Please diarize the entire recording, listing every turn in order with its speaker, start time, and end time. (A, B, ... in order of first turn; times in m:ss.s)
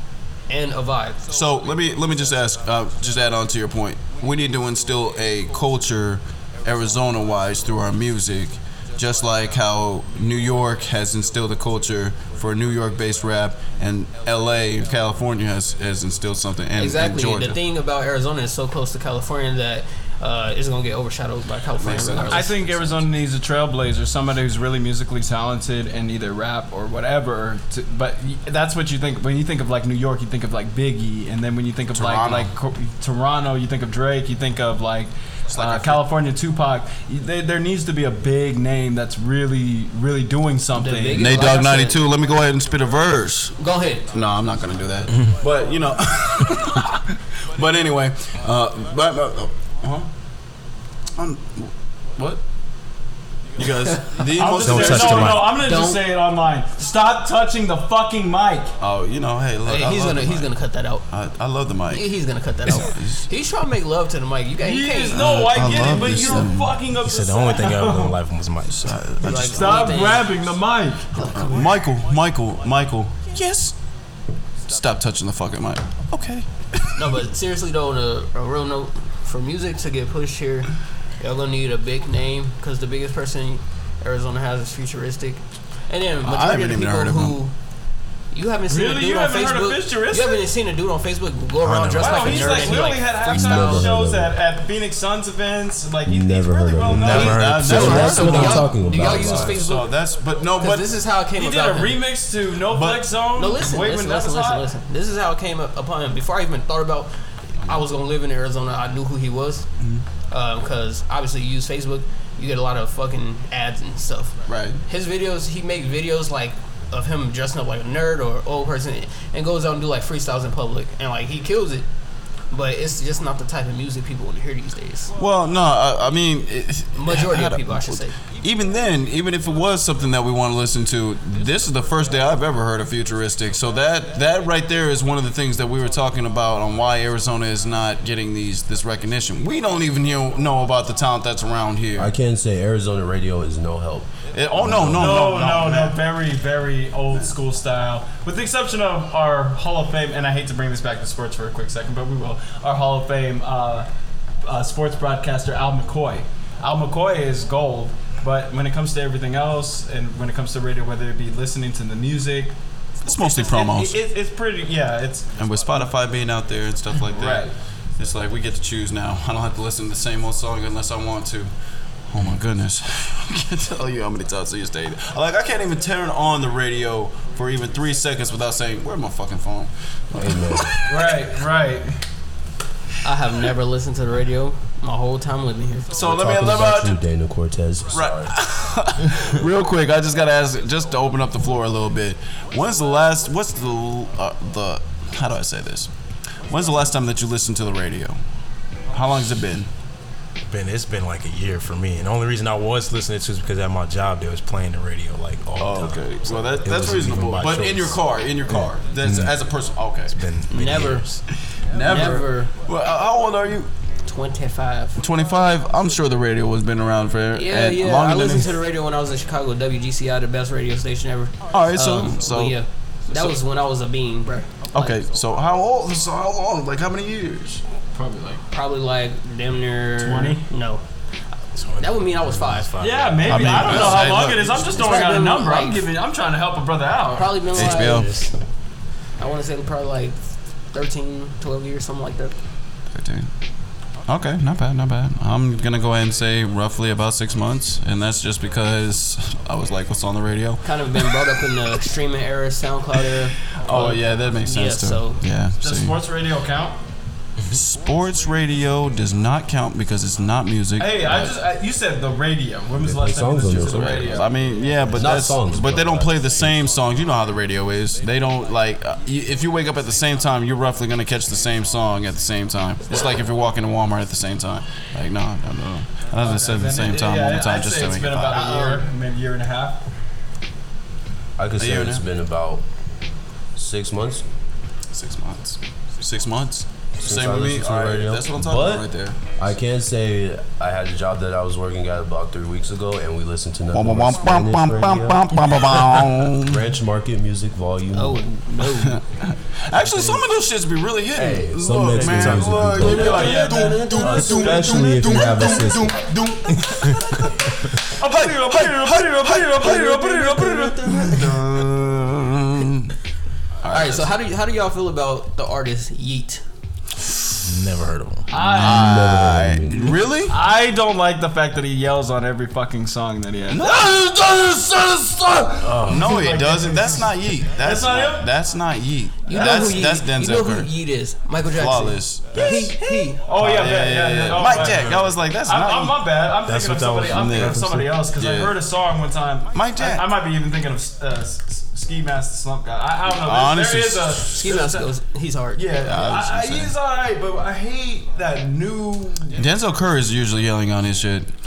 0:00.5-0:01.2 A
0:01.3-0:17.6 B
0:16.8-0:22.5 A
0:21.8-0:23.0 B
0:22.3-0:41.4 C
0:31.9-0:32.5 B
0:35.5-0:36.1 B
0:40.7-0:42.0 A
0:41.1-0:50.1 B
0:43.6-0:44.1 A
0:51.2-0:52.4 B
0:53.6-0:55.4 B
0:54.3-0:58.7 C
0:54.6-0:55.6 D
0:55.5-0:56.0 A
0:58.8-1:00.5 B
0:59.6-1:01.0 A
1:01.1-1:02.1 B
1:01.9-1:05.4 A
1:02.7-1:03.2 B
1:04.6-1:08.2 C
1:05.1-1:06.7 B
1:07.0-1:09.0 D
1:08.7-1:10.1 B
1:09.2-1:10.4 A
1:09.2-1:11.3 C
1:11.1-1:11.7 A
1:11.2-1:13.8 B
1:14.6-1:17.0 B
1:16.9-1:27.5 A
1:26.2-1:27.4 B
1:28.3-1:33.9 A
1:28.7-1:30.4 C
1:31.6-1:32.9 D
1:32.0-1:37.5 C
1:33.1-1:34.3 E
1:36.0-1:39.6 E
1:36.9-1:38.6 D
1:37.1-1:39.9 A
1:37.1-1:40.9 B
1:38.2-1:38.6 C
1:40.6-1:42.0 A
1:41.3-1:44.7 C
1:42.7-1:43.1 B
1:43.3-1:47.1 A
1:47.6-1:49.7 A
1:49.8-1:50.0 B
1:50.3-2:01.9 A
1:54.5-1:54.8 B
2:02.5-2:05.1 A
2:05.2-2:22.1 B
2:07.0-2:08.2 A
2:22.0-2:25.1 E
2:24.3-2:26.0 B
2:24.9-2:33.9 C
2:34.4-2:42.6 C
2:43.0-2:44.0 B
2:43.1-2:45.3 C
2:45.4-2:51.5 B
2:47.1-2:47.5 C
2:52.1-3:01.0 B
3:00.2-3:00.8 E
3:00.8-3:02.0 C
3:03.0-3:05.9 A
3:05.9-3:07.0 B
3:05.9-3:08.3 E
3:07.9-3:15.9 B
3:16.5-3:18.2 B
3:18.9-3:19.7 B
3:20.5-3:26.1 D
3:25.6-3:30.2 B
3:26.6-3:29.3 D
3:30.1-3:31.1 D
3:30.5-3:31.2 A
3:31.5-3:33.7 B
3:31.8-3:32.5 A
3:34.0-3:35.0 A
3:35.0-3:38.6 B
3:37.3-3:45.0 A
3:41.5-3:42.6 B
3:44.7-3:47.6 B
3:47.9-3:48.4 C
3:48.5-3:50.8 A
3:50.0-3:50.4 C
3:51.5-3:53.8 D
3:51.8-3:52.7 A
3:52.8-3:57.4 C
3:53.2-3:54.6 B
3:54.6-3:55.9 A
3:57.1-3:58.3 A
3:57.5-3:58.1 B
3:57.6-3:58.2 D
3:59.2-4:02.3 A
4:02.9-4:03.3 B
4:04.1-4:11.2 B
4:10.6-4:15.2 A
4:13.5-4:16.0 B
4:15.6-4:16.8 C
4:17.5-4:21.4 B
4:20.8-4:24.8 C
4:22.8-4:24.2 E
4:23.5-4:38.6 B
4:24.9-4:26.5 E
4:36.2-4:39.8 C
4:38.3-4:38.8 A
4:41.4-4:42.6 E
4:41.6-4:42.0 B
4:43.5-4:44.2 E
4:44.9-4:49.2 B
4:47.0-4:55.4 E
4:53.7-4:56.6 B
4:55.9-4:58.3 E
4:57.9-4:59.0 A
4:58.6-5:09.9 B
5:01.1-5:03.4 E
5:02.1-5:02.5 D
5:02.7-5:05.1 A
5:02.9-5:04.2 C
5:03.9-5:06.8 E
5:07.8-5:11.2 C
5:09.5-5:11.4 A
5:10.8-5:12.9 B
5:13.6-5:14.2 B
5:13.7-5:16.4 A
5:17.4-5:18.5 D
5:18.3-5:19.1 C
5:18.4-5:20.1 E
5:18.5-5:20.4 B
5:20.2-5:28.3 C
5:23.5-5:24.0 B
5:25.6-5:26.1 D
5:25.8-5:30.7 B
5:29.3-5:33.2 A
5:31.5-5:36.0 B
5:32.4-5:44.9 C
5:36.4-5:38.0 D
5:37.1-5:38.6 B
5:39.5-5:40.1 B
5:43.0-5:44.3 B
5:44.3-5:45.6 A
5:45.5-5:49.4 C
5:45.8-5:46.7 B
5:49.3-5:51.3 B